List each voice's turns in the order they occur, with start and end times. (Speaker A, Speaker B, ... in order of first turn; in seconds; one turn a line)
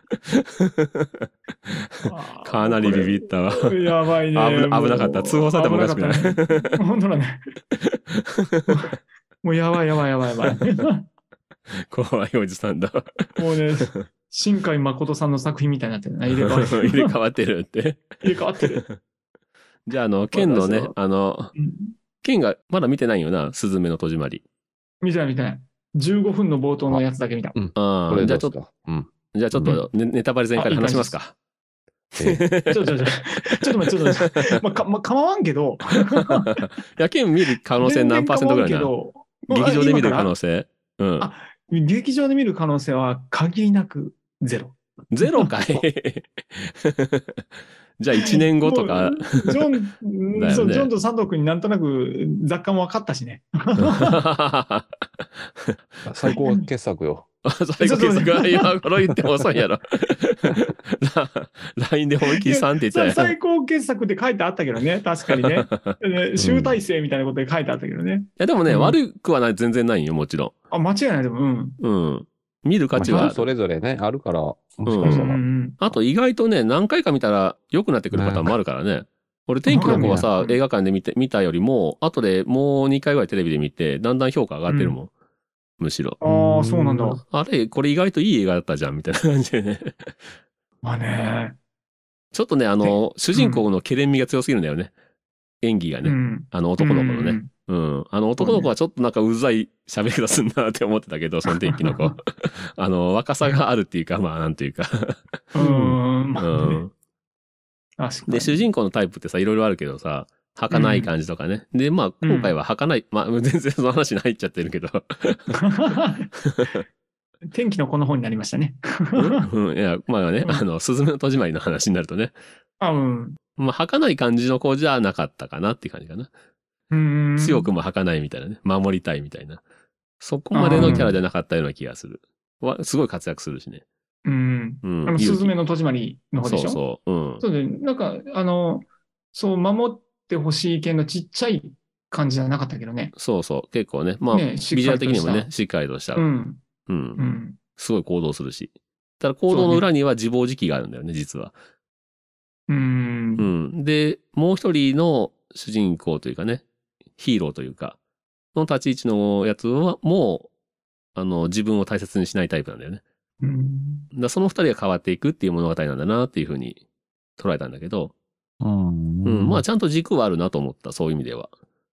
Speaker A: 0.2-6.8
Speaker B: 2.0-7.4
Speaker A: 7.8-8.8
Speaker B: 8.7-11.1
Speaker A: 11.8-14.0
Speaker B: 13.4-17.1
Speaker A: 16.3-19.0
Speaker B: 18.2-18.8
Speaker A: 19.9-21.5
Speaker B: 20.3-20.9
Speaker B: 21.5-21.9
Speaker A: 22.2-24.4
Speaker B: 25.0-27.5
Speaker C: 27.5-29.8
Speaker A: 27.8-28.5
Speaker A: 29.3-31.3
Speaker B: 30.6-31.2
Speaker A: 32.1-32.9
Speaker C: 32.2-32.5
Speaker B: 32.7-36.6
Speaker A: 34.0-34.6
Speaker A: 36.1-38.9
Speaker B: 37.8-40.3
Speaker A: 39.5-41.3
Speaker B: 41.2-45.5
Speaker A: 45.1-47.5
Speaker A: 48.0-49.7
Speaker B: 48.1-54.2
Speaker A: 50.4-50.9
Speaker A: 53.8-55.8
Speaker C: 56.0-57.2
Speaker B: 56.3-56.6
Speaker A: 57.4-63.3
Speaker B: 57.8-58.8
Speaker B: 62.2-69.0
Speaker A: 65.3-66.0
Speaker C: 66.4-66.7
Speaker A: 68.4-70.5
Speaker B: 70.7-71.8
Speaker A: 71.8-73.4
Speaker C: 72.9-75.4
Speaker B: 73.0-73.3
Speaker A: 74.8-85.1
Speaker B: 75.0-75.8
Speaker C: 78.1-78.5
Speaker B: 79.7-80.6
Speaker C: 79.8-80.3
Speaker B: 84.7-85.0
Speaker A: 85.8-86.2
Speaker B: 86.2-87.2
Speaker C: 86.2-87.2
Speaker A: 87.2-90.3
Speaker B: 90.8-91.6
Speaker A: 92.3-94.9
Speaker B: 92.8-93.6
Speaker A: 95.6-105.4
Speaker B: 96.0-97.5
Speaker B: 98.4-98.7
Speaker B: 101.5-102.1
Speaker B: 105.5-106.8
Speaker C: 105.6-106.0
Speaker A: 106.4-106.9
Speaker B: 108.0-108.6
Speaker A: 108.3-115.9
Speaker B: 110.7-111.1
Speaker B: 112.2-112.5
Speaker B: 115.6-116.3
Speaker A: 116.4-116.8
Speaker B: 117.5-119.5
Speaker A: 119.2-122.3
Speaker B: 122.8-123.4
Speaker A: 123.6-126.3
Speaker B: 126.9-127.7
Speaker A: 127.4-129.6
Speaker A: 130.2-133.8
Speaker B: 130.5-131.1
Speaker C: 130.7-131.2
Speaker B: 134.2-136.8
Speaker A: 134.8-135.5
Speaker A: 136.4-137.4
Speaker B: 137.4-143.1
Speaker A: 143.2-146.3
Speaker B: 144.3-145.5
Speaker B: 146.2-146.6
Speaker A: 146.9-151.5
Speaker B: 147.2-147.6
Speaker B: 149.5-149.8
Speaker B: 152.7-153.5
Speaker A: 153.4-156.6
Speaker A: 157.2-158.0
Speaker A: 158.5-160.5
Speaker A: 161.1-163.0
Speaker B: 163.4-164.1
Speaker A: 164.1-166.8
Speaker A: 167.4-168.1
Speaker C: 168.6-169.6
Speaker A: 169.2-171.5